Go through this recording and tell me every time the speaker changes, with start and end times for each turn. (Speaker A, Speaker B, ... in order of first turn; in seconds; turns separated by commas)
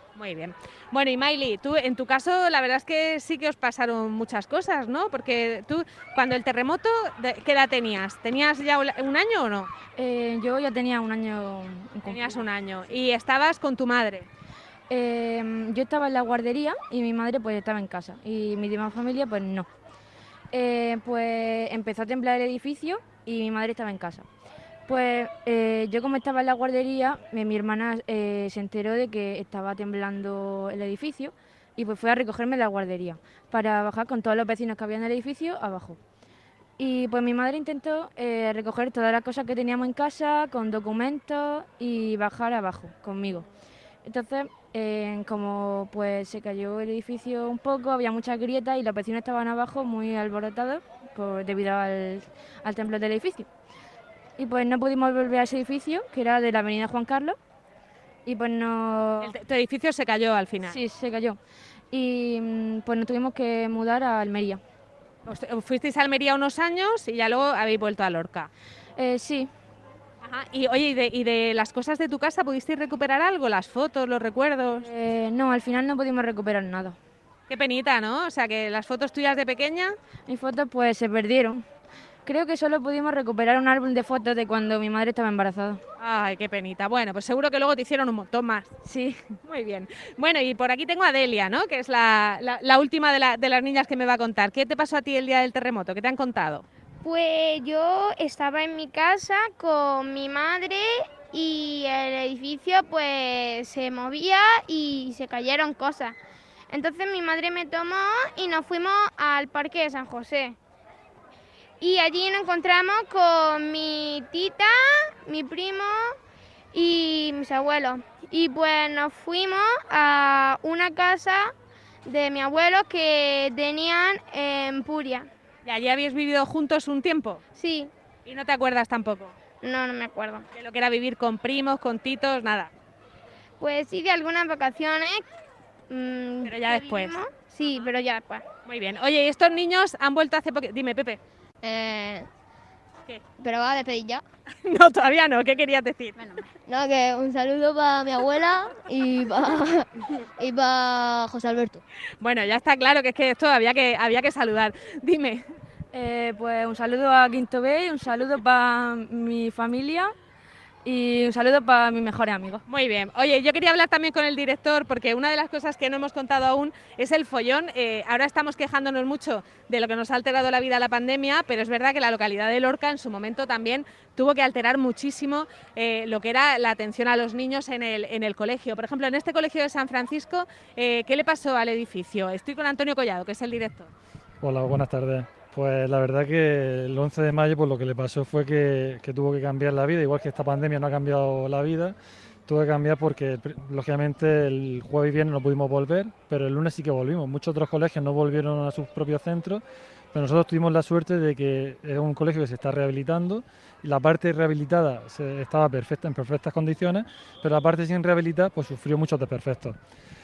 Speaker A: 0.1-9.7, Speaker B: 10.0-12.4, Speaker A: 12.0-14.3, Speaker B: 14.9-19.7, Speaker B: 20.5-24.2, Speaker B: 24.9-36.0, Speaker B: 36.8-43.5, Speaker B: 44.0-53.5, Speaker B: 54.4-57.4, Speaker B: 58.2-59.3, Speaker A: 59.2-60.8, Speaker B: 60.6-61.4, Speaker B: 61.9-64.6, Speaker A: 65.2-68.5, Speaker B: 69.0-69.5, Speaker A: 70.2-74.9, Speaker B: 74.8-77.0, Speaker A: 77.5-79.9, Speaker B: 80.3-81.6, Speaker B: 82.2-85.8, Speaker A: 86.0-88.7, Speaker B: 88.8-89.3, Speaker A: 89.4-96.6, Speaker C: 97.0-106.2, Speaker C: 106.7-110.6, Speaker C: 111.8-116.2, Speaker C: 116.7-121.5, Speaker C: 122.0-125.3, Speaker A: 125.6-127.4, Speaker C: 127.5-127.9, Speaker A: 128.2-129.3, Speaker C: 129.6-130.4, Speaker A: 130.5-132.7, Speaker C: 133.6-135.2, Speaker C: 135.9-138.4, Speaker A: 136.4-137.9, Speaker A: 138.6-141.2, Speaker D: 141.6-142.3, Speaker D: 143.4-144.2, Speaker A: 144.7-146.3, Speaker D: 146.7-149.9, Speaker D: 150.4-151.8, Speaker A: 152.2-155.4, Speaker B: 155.9-160.1, Speaker B: 160.8-162.6, Speaker A: 162.7-183.9, Speaker E: 184.4-191.9, Speaker E: 192.5-209.8